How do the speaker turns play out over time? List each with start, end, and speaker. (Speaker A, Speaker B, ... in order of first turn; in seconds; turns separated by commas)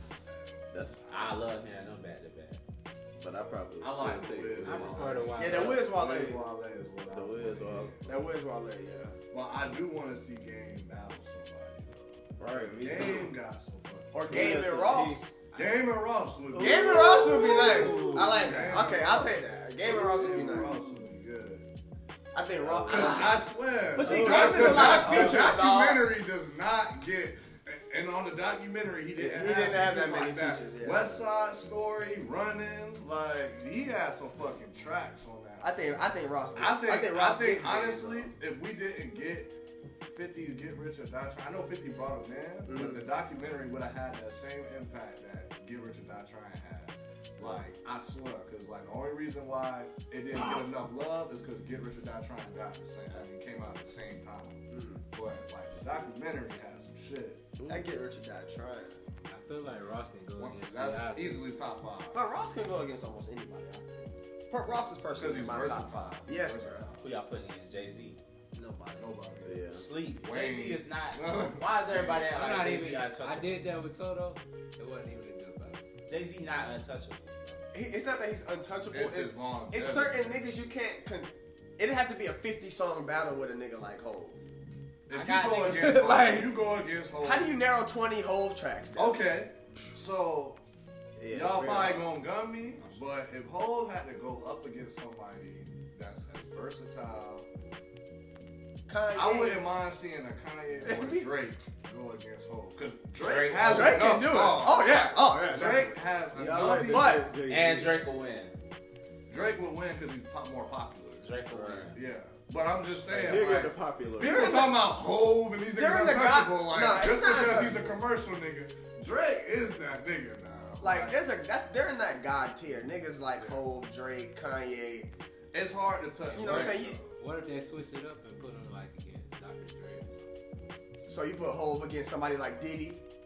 Speaker A: 0.7-1.0, Speaker B: 1.1-2.6, Speaker A: 3.2-5.3, Speaker C: 3.8-8.3, Speaker D: 4.6-5.9, Speaker E: 5.4-6.4, Speaker A: 7.1-8.0, Speaker E: 8.1-9.2, Speaker C: 9.3-14.6, Speaker A: 12.4-13.3, Speaker E: 14.1-15.3, Speaker A: 14.2-15.3, Speaker C: 15.5-21.7, Speaker A: 16.5-18.7, Speaker E: 16.6-20.9, Speaker D: 17.6-18.4, Speaker E: 22.3-26.0, Speaker A: 22.7-23.3, Speaker C: 22.7-35.9, Speaker A: 24.0-25.4, Speaker E: 29.2-31.2, Speaker E: 35.6-38.3, Speaker C: 36.5-39.5, Speaker C: 40.0-57.5, Speaker E: 42.7-43.0, Speaker E: 54.7-55.0, Speaker A: 57.6-57.9, Speaker E: 57.6-59.0, Speaker D: 59.3-61.5, Speaker C: 60.4-62.3, Speaker E: 62.1-66.8, Speaker C: 65.1-67.1, Speaker B: 67.0-68.2, Speaker E: 68.5-69.1, Speaker C: 69.0-69.7, Speaker A: 69.4-69.9, Speaker B: 69.7-73.6, Speaker C: 70.2-72.3, Speaker D: 72.3-75.8, Speaker B: 76.0-77.7, Speaker E: 77.7-84.4, Speaker C: 78.9-80.4, Speaker C: 85.1-87.5, Speaker B: 85.1-86.0, Speaker E: 85.5-86.5, Speaker E: 87.2-89.2, Speaker C: 88.9-90.6, Speaker A: 91.2-92.1, Speaker C: 91.3-97.5, Speaker E: 98.9-99.7, Speaker C: 99.1-107.3, Speaker E: 100.8-101.3, Speaker B: 103.2-104.1, Speaker E: 103.6-106.0, Speaker A: 106.3-108.0, Speaker E: 106.7-107.2, Speaker B: 107.5-108.6, Speaker C: 109.3-111.3, Speaker B: 111.2-112.0, Speaker A: 111.5-111.9, Speaker C: 111.9-121.2, Speaker A: 113.0-114.5, Speaker E: 114.2-114.9, Speaker E: 115.7-118.0, Speaker E: 120.8-125.1, Speaker C: 125.5-127.1, Speaker E: 126.3-127.0, Speaker B: 126.4-126.7, Speaker D: 126.6-130.3, Speaker E: 131.1-133.0